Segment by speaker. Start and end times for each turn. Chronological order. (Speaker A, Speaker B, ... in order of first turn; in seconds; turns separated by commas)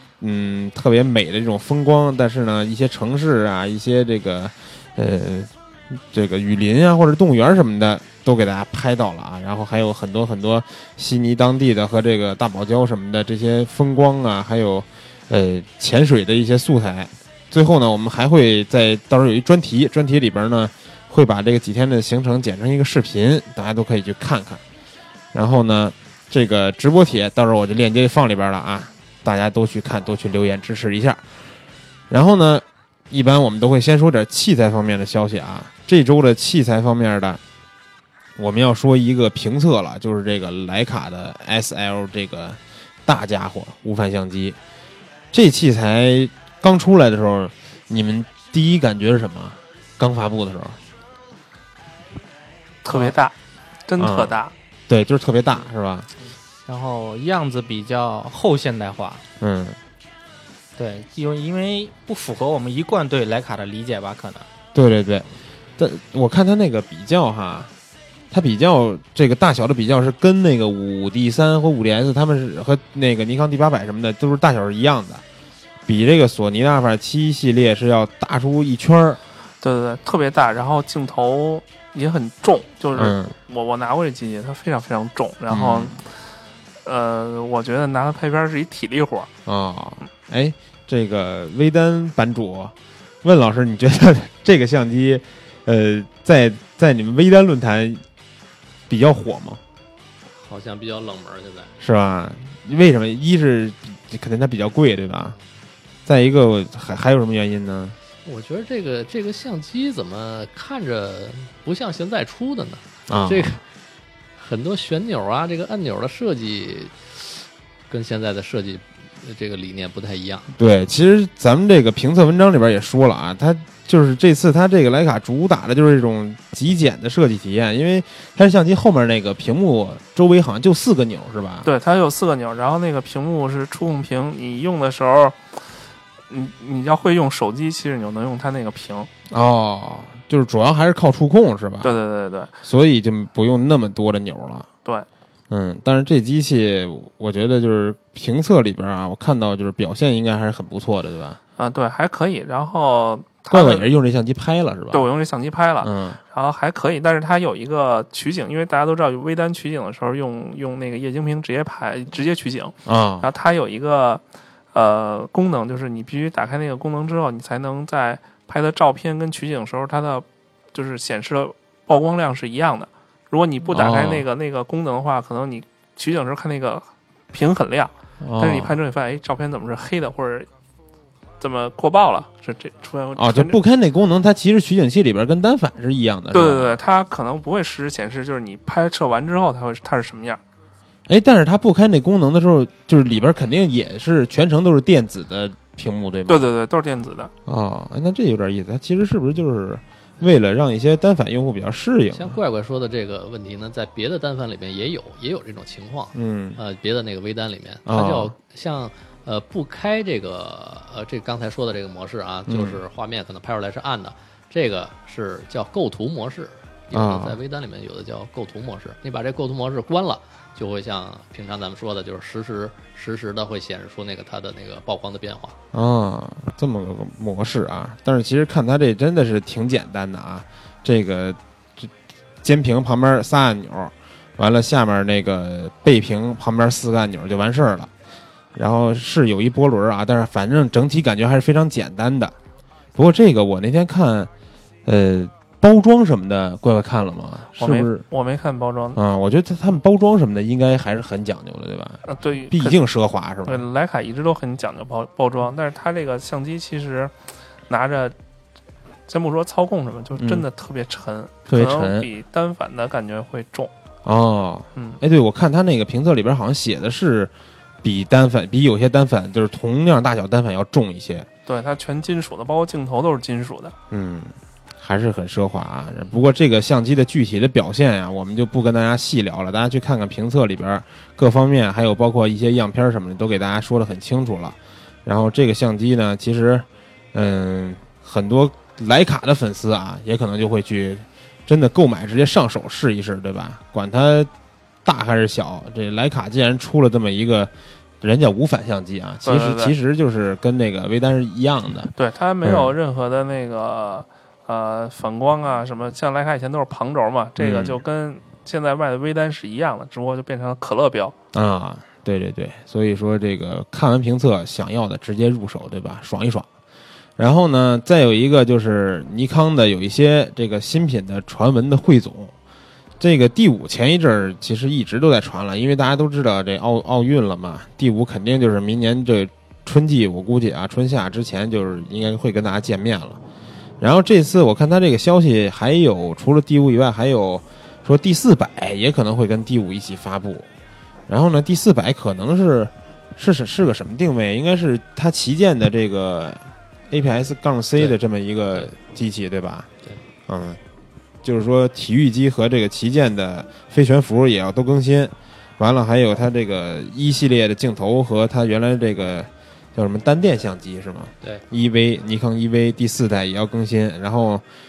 Speaker A: 0.2-24.6, Speaker A: 25.3-31.2, Speaker A: 32.1-37.4, Speaker A: 38.4-44.6, Speaker A: 45.3-50.8, Speaker B: 52.8-53.3, Speaker C: 52.9-53.1, Speaker B: 53.9-54.5, Speaker A: 54.0-54.4, Speaker A: 54.9-56.1, Speaker C: 56.7-59.2, Speaker A: 59.4-59.8, Speaker C: 60.8-64.5, Speaker A: 64.7-67.7, Speaker A: 68.3-75.2, Speaker A: 75.9-79.2, Speaker B: 79.6-86.1, Speaker A: 83.0-83.3, Speaker A: 85.5-86.0, Speaker B: 86.8-89.3, Speaker A: 89.5-98.0, Speaker A: 98.9-99.6, Speaker D: 100.3-101.7, Speaker A: 101.8-105.3, Speaker A: 106.0-108.0, Speaker D: 108.2-113.6, Speaker A: 113.1-113.6, Speaker D: 114.4-120.5, Speaker A: 120.6-131.7, Speaker B: 131.6-135.4, Speaker B: 136.3-139.1, Speaker A: 139.3-141.9, Speaker B: 141.8-142.5, Speaker A: 142.6-144.7, Speaker A: 145.5-151.4, Speaker B: 151.6-153.9, Speaker A: 153.5-155.1, Speaker B: 154.9-164.2, Speaker A: 155.8-156.2, Speaker A: 162.8-163.3, Speaker B: 164.7-180.5, Speaker A: 173.7-174.3, Speaker A: 178.2-178.8, Speaker B: 181.4-183.6, Speaker A: 183.1-186.8, Speaker B: 186.3-190.4, Speaker A: 191.1-196.5, Speaker B: 196.3-197.3, Speaker A: 197.4-202.4, Speaker D: 202.1-225.6, Speaker A: 206.1-206.6, Speaker A: 207.8-208.3, Speaker A: 212.4-212.8, Speaker A: 216.9-217.4, Speaker A: 225.7-231.9, Speaker A: 232.4-237.9, Speaker A: 238.5-242.3, Speaker A: 242.9-244.3, Speaker A: 244.8-248.0, Speaker B: 247.6-249.0, Speaker A: 248.9-253.6, Speaker B: 252.1-252.8, Speaker B: 253.4-257.1, Speaker B: 257.7-258.1, Speaker B: 259.1-263.7, Speaker A: 260.2-260.4, Speaker A: 261.5-262.1, Speaker A: 264.0-267.3, Speaker B: 264.8-265.0, Speaker A: 267.8-271.3, Speaker B: 271.4-273.7, Speaker A: 273.9-294.3, Speaker A: 294.8-301.9, Speaker B: 299.2-299.7, Speaker B: 302.0-311.1, Speaker A: 302.4-302.7, Speaker A: 307.4-307.8, Speaker A: 311.3-316.5, Speaker A: 317.2-322.3, Speaker A: 323.0-333.2, Speaker A: 333.8-340.5, Speaker A: 341.1-349.7, Speaker A: 350.3-350.6, Speaker A: 351.2-364.4